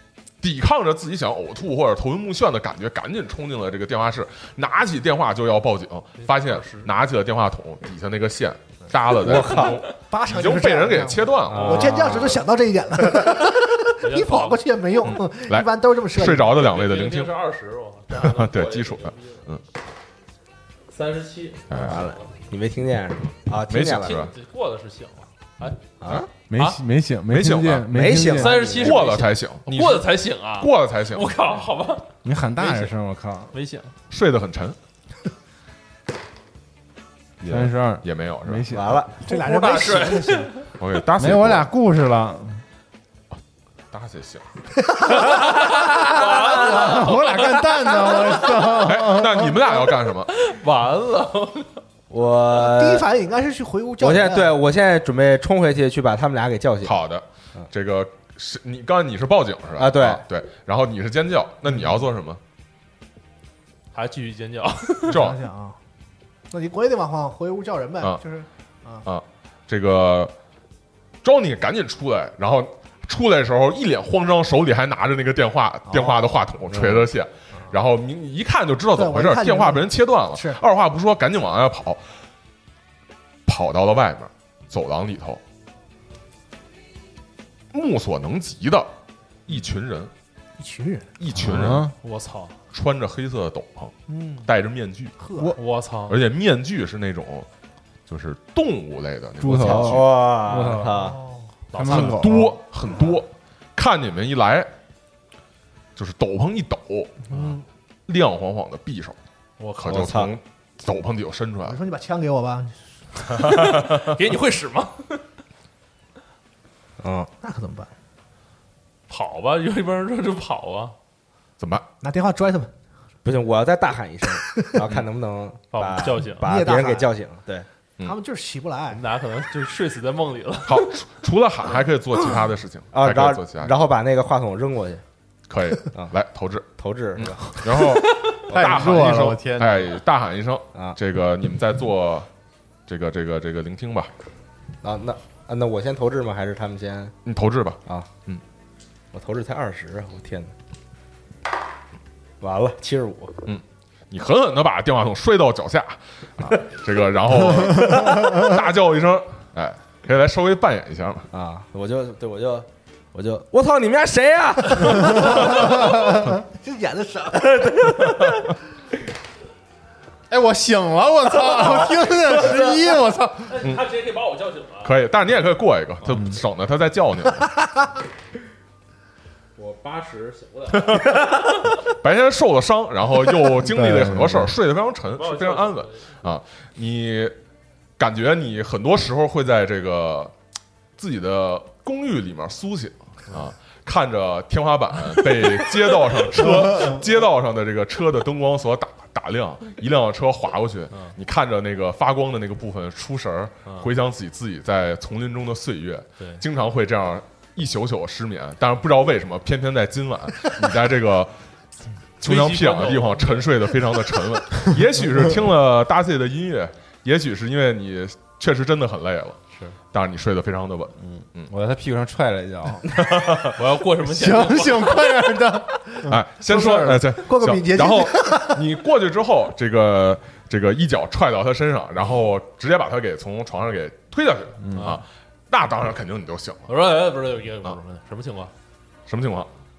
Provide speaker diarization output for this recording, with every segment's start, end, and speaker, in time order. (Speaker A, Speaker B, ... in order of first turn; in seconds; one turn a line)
Speaker A: 0.4-12.1
Speaker B: 6.2-6.9
Speaker C: 9.1-9.8
Speaker D: 10.1-16.5
Speaker C: 11.5-12.5
Speaker B: 14.0-14.6
Speaker A: 15.0-17.3
Speaker B: 16.5-19.4
Speaker A: 18.1-19.6
Speaker B: 20.9-22.3
Speaker A: 21.7-22.1
Speaker C: 21.7-24.3
Speaker A: 23.7-24.3
Speaker B: 23.9-25.8
Speaker C: 26.0-26.3
Speaker E: 26.5-28.7
Speaker A: 27.3-27.9
Speaker C: 27.9-29.2
Speaker B: 28.2-32.9
Speaker A: 28.8-31.3
Speaker E: 32.2-33.5
Speaker B: 33.5-33.9
Speaker A: 34.1-34.8
Speaker A: 37.4-38.7
Speaker E: 37.5-39.1
Speaker C: 38.7-39.3
Speaker D: 39.2-40.5
Speaker B: 39.3-40.6
Speaker A: 40.8-41.7
Speaker E: 41.2-42.6
Speaker A: 43.9-44.5
Speaker D: 44.9-45.2
Speaker B: 45.2-48.7
Speaker E: 46.3-49.7
Speaker A: 48.8-50.3
Speaker B: 50.3-51.8
Speaker C: 52.1-53.1
Speaker D: 52.5-54.6
Speaker C: 54.0-57.0
Speaker A: 56.8-62.4
Speaker C: 59.8-60.2
Speaker B: 63.9-65.2
Speaker A: 65.1-65.4
Speaker D: 65.1-65.8
Speaker D: 66.5-69.0
Speaker A: 69.0-70.3
Speaker A: 71.2-82.1
Speaker D: 75.9-76.2
Speaker D: 79.0-80.6
Speaker A: 83.5-85.4
Speaker A: 87.7-88.9
Speaker A: 89.5-90.1
Speaker D: 90.6-91.1
Speaker A: 91.2-91.9
Speaker E: 91.3-91.9
Speaker B: 92.0-92.6
Speaker A: 92.7-95.2
Speaker D: 94.1-94.5
Speaker D: 95.2-95.5
Speaker B: 95.6-96.2
Speaker A: 96.1-97.5
Speaker A: 98.1-100.1
Speaker E: 99.4-101.1
Speaker C: 99.5-101.2
Speaker D: 101.0-101.5
Speaker B: 101.7-102.3
Speaker E: 101.8-102.6
Speaker A: 101.8-104.7
Speaker A: 106.0-107.5
Speaker D: 107.3-107.6
Speaker A: 108.1-109.2
Speaker B: 109.6-110.1
Speaker A: 109.8-111.8
Speaker C: 109.9-110.3
Speaker D: 111.7-112.9
Speaker B: 113.3-115.2
Speaker A: 113.3-114.2
Speaker C: 117.0-117.3
Speaker D: 117.4-117.9
Speaker B: 119.1-121.0
Speaker A: 121.6-121.9
Speaker D: 122.0-122.7
Speaker C: 123.2-127.7
Speaker B: 125.7-126.5
Speaker D: 126.4-127.1
Speaker D: 128.0-129.0
Speaker B: 128.9-131.0
Speaker A: 130.7-133.7
Speaker C: 132.9-135.0
Speaker A: 135.5-142.3
Speaker C: 136.8-137.9
Speaker C: 138.5-138.9
Speaker E: 138.5-140.0
Speaker A: 142.9-144.1
Speaker C: 144.8-147.2
Speaker A: 147.2-148.4
Speaker C: 147.9-148.1
Speaker C: 149.1-150.5
Speaker C: 152.4-153.4
Speaker A: 153.4-161.3
Speaker C: 157.9-158.5
Speaker C: 161.3-166.0
Speaker E: 165.1-166.2
Speaker D: 166.5-167.7
Speaker C: 167.5-168.3
Speaker A: 168.1-168.4
Speaker E: 170.3-173.6
Speaker B: 173.5-174.9
Speaker A: 174.8-177.7
Speaker E: 176.1-176.4
Speaker B: 179.6-181.7
Speaker A: 180.8-187.4
Speaker E: 183.6-184.5
Speaker B: 185.2-186.1
Speaker A: 188.0-190.3
Speaker A: 191.0-211.3
Speaker A: 212.2-219.4
Speaker B: 212.2-214.0
Speaker A: 219.9-221.5
Speaker E: 221.0-223.0
Speaker A: 222.9-223.6
Speaker B: 223.6-225.3
Speaker E: 224.0-226.9
Speaker A: 226.1-236.7
Speaker D: 226.5-228.6
Speaker E: 234.6-235.0
Speaker B: 234.8-235.0
Speaker B: 236.7-238.5
Speaker A: 239.1-239.5